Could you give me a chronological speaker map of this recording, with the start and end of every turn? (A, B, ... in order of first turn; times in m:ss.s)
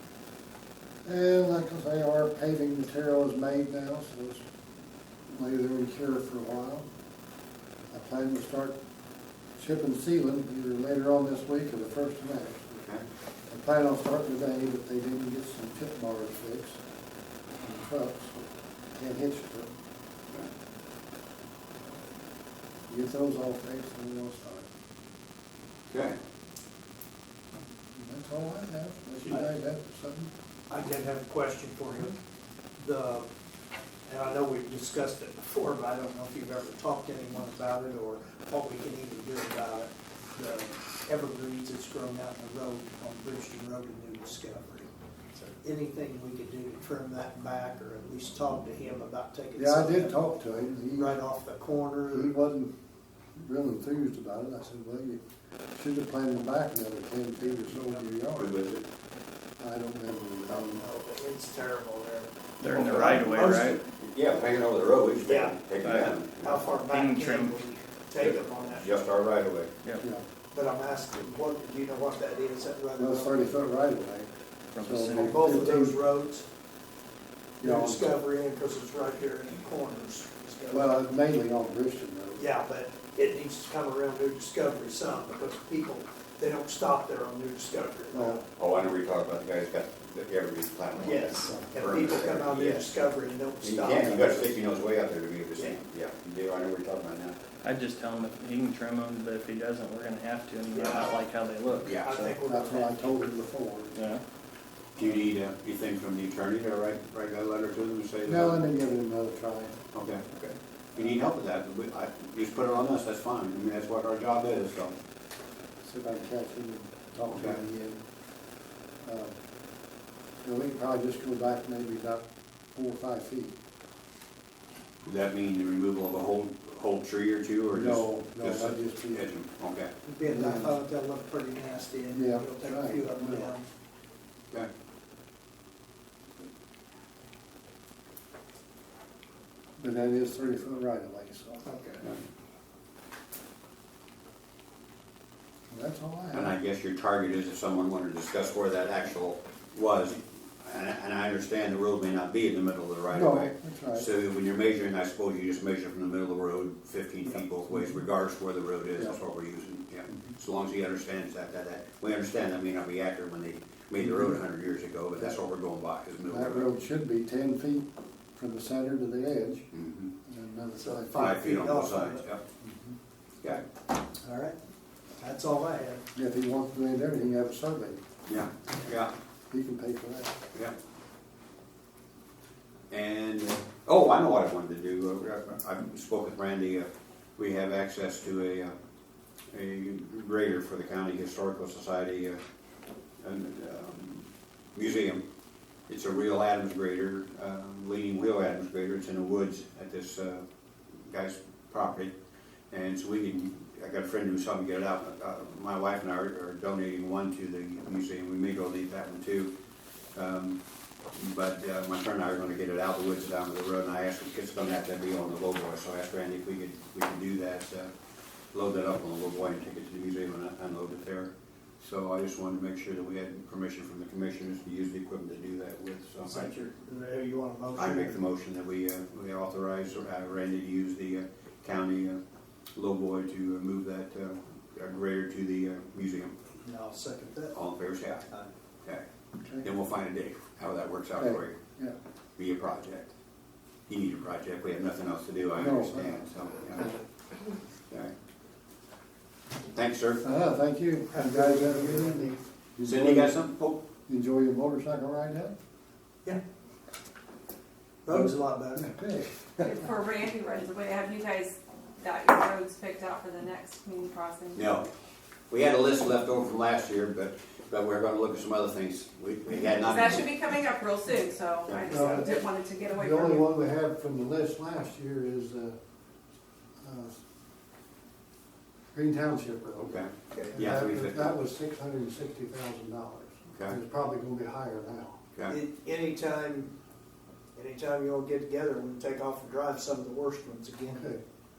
0:01.0-0:04.4 A
0:05.3-0:06.9 A
0:07.9-0:08.7 A
0:09.6-0:12.8 A
0:13.5-0:16.8 A
0:17.6-0:19.7 A
0:22.9-0:24.7 A
0:25.9-0:26.2 B
0:27.9-0:30.3 A
0:30.7-0:32.2 C
0:32.8-0:33.3 C
0:34.1-0:50.2 C
0:49.6-0:51.1 A
0:50.9-0:52.3 C
0:52.1-0:52.7 A
0:53.4-0:55.2 A
0:55.7-0:58.5 A
0:58.4-0:58.8 B
0:59.6-1:00.8 A
1:00.5-1:03.8 C
1:02.6-1:03.8 D
1:02.8-1:03.2 A
1:04.0-1:06.5 B
1:05.2-1:05.6 C
1:05.8-1:07.6 D
1:06.4-1:09.0 C
1:08.2-1:09.7 B
1:10.5-1:13.4 C
1:13.0-1:16.0 A
1:14.7-1:15.7 D
1:15.1-1:16.4 C
1:17.6-1:20.9 C
1:17.6-1:18.2 A
1:20.7-1:22.4 A
1:22.4-1:28.4 C
1:28.1-1:28.4 A
1:28.6-1:32.9 B
1:31.0-1:34.6 C
1:33.6-1:37.4 B
1:37.6-1:42.3 D
1:40.7-1:41.1 C
1:41.8-1:42.1 B
1:42.0-1:43.2 C
1:42.4-1:44.1 A
1:43.9-1:44.2 D
1:45.0-1:48.6 B
1:48.2-1:49.8 A
1:49.9-1:54.9 B
1:55.8-1:58.0 A
1:57.3-1:57.6 B
1:59.0-1:59.3 A
2:00.4-2:03.5 A
2:05.0-2:09.9 B
2:07.7-2:09.2 A
2:10.0-2:13.6 C
2:10.2-2:10.7 A
2:12.1-2:13.5 A
2:19.8-2:21.7 A
2:21.6-2:22.0 C
2:25.7-2:26.5 A
2:26.3-2:46.7 B
2:33.1-2:34.1 A
2:37.7-2:38.0 A
2:44.0-2:44.4 A
2:46.3-2:49.7 A
2:49.7-2:50.1 B
2:50.2-2:51.3 A
2:50.8-2:52.2 C
2:51.1-2:52.4 B
2:52.6-2:53.0 A
2:54.2-2:54.6 C
2:55.2-2:56.0 C
2:56.1-2:58.0 A
2:58.3-2:59.1 B
2:59.5-3:00.4 A
3:02.9-3:08.7 B
3:09.5-3:12.4 B
3:13.2-3:15.2 B
3:15.9-3:20.4 B
3:21.1-3:22.1 B
3:22.7-3:29.5 B
3:30.1-3:30.6 B
3:31.1-3:37.9 B
3:38.5-3:46.5 B
3:46.2-3:48.2 C
3:47.8-3:52.2 B
3:52.7-3:56.4 B
3:56.6-3:57.6 C
3:57.5-3:58.3 B
3:59.6-4:01.6 B
4:01.2-4:02.0 A
4:02.4-4:03.1 B
4:03.9-4:06.9 B
4:05.6-4:06.9 A
4:09.7-4:10.2 B
4:10.2-4:13.4 A
4:11.1-4:12.4 C
4:12.8-4:13.8 B
4:14.1-4:15.5 A
4:18.0-4:18.8 C
4:18.1-4:19.9 A
4:19.6-4:24.6 E
4:24.5-4:24.9 B
4:25.5-4:30.3 B
4:29.8-4:33.4 E
4:31.6-4:31.9 B
4:31.9-4:35.8 A
4:31.9-4:32.2 C
4:36.8-4:37.2 A
4:38.9-4:40.0 A
4:39.8-4:41.3 B
4:40.5-4:45.2 A
4:45.5-4:46.7 C
4:47.6-4:51.1 C
4:50.9-4:51.2 A